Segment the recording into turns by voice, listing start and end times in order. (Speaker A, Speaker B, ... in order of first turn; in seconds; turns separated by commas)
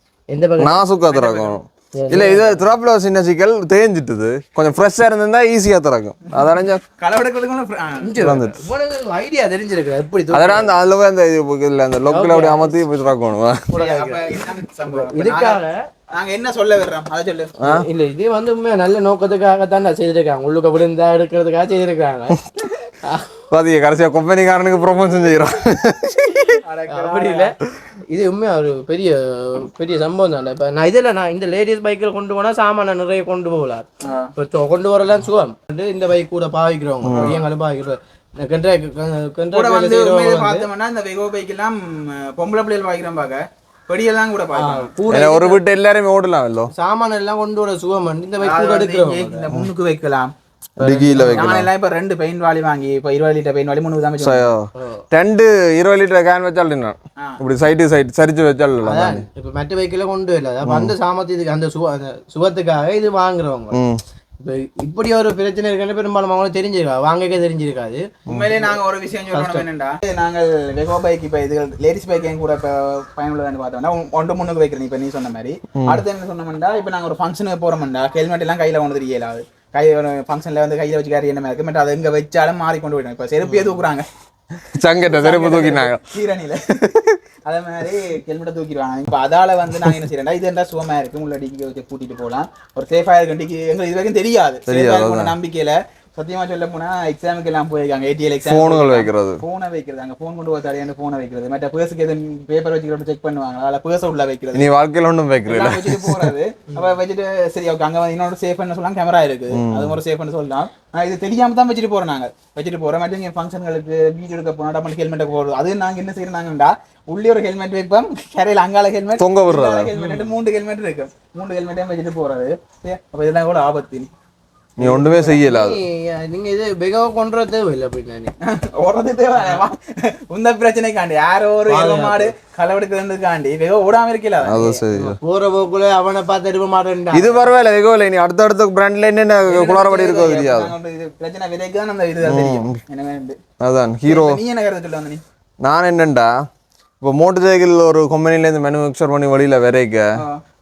Speaker A: 0.3-0.8, Speaker B: 0.6-6.8, Speaker C: 1.1-1.6, Speaker A: 2.0-2.6, Speaker C: 7.0-8.2, Speaker A: 8.0-10.7, Speaker B: 8.2-8.6, Speaker B: 10.3-13.7, Speaker A: 12.1-12.8, Speaker A: 13.7-14.3, Speaker C: 13.7-17.5, Speaker A: 14.8-15.7, Speaker B: 17.6-17.8, Speaker A: 17.6-22.4, Speaker B: 23.5-26.6, Speaker C: 26.6-27.5, Speaker A: 26.9-27.5, Speaker A: 28.1-33.9, Speaker C: 34.0-34.3, Speaker A: 34.4-40.6, Speaker B: 37.0-37.4, Speaker C: 37.1-37.4, Speaker C: 39.5-45.0, Speaker A: 44.5-45.6, Speaker B: 45.1-46.7, Speaker A: 46.7-49.5, Speaker C: 48.4-50.3, Speaker A: 50.8-51.5, Speaker B: 50.8-51.7, Speaker C: 51.1-54.5, Speaker B: 54.2-59.2, Speaker A: 54.8-55.0, Speaker A: 58.8-63.8, Speaker B: 60.6-60.9, Speaker B: 63.7-64.0, Speaker A: 64.4-68.0, Speaker B: 68.3-68.5, Speaker C: 68.3-84.1, Speaker A: 69.3-69.7, Speaker B: 75.8-76.0, Speaker B: 83.5-83.8, Speaker B: 84.6-86.0, Speaker C: 85.1-86.7, Speaker B: 86.8-87.2, Speaker C: 87.5-104.7, Speaker B: 94.7-95.3, Speaker B: 98.4-99.4, Speaker B: 104.5-106.3, Speaker C: 105.5-124.1, Speaker B: 109.5-110.0, Speaker B: 119.2-119.9, Speaker A: 120.0-120.2, Speaker B: 124.8-125.8, Speaker C: 124.8-125.4, Speaker A: 125.3-128.3, Speaker C: 128.5-134.7, Speaker A: 131.7-132.3, Speaker B: 134.4-135.2, Speaker A: 134.5-137.5, Speaker B: 137.1-140.7, Speaker C: 139.5-143.4, Speaker B: 142.2-142.8, Speaker B: 143.6-144.4, Speaker C: 144.1-145.2, Speaker B: 145.6-146.3, Speaker B: 147.0-150.0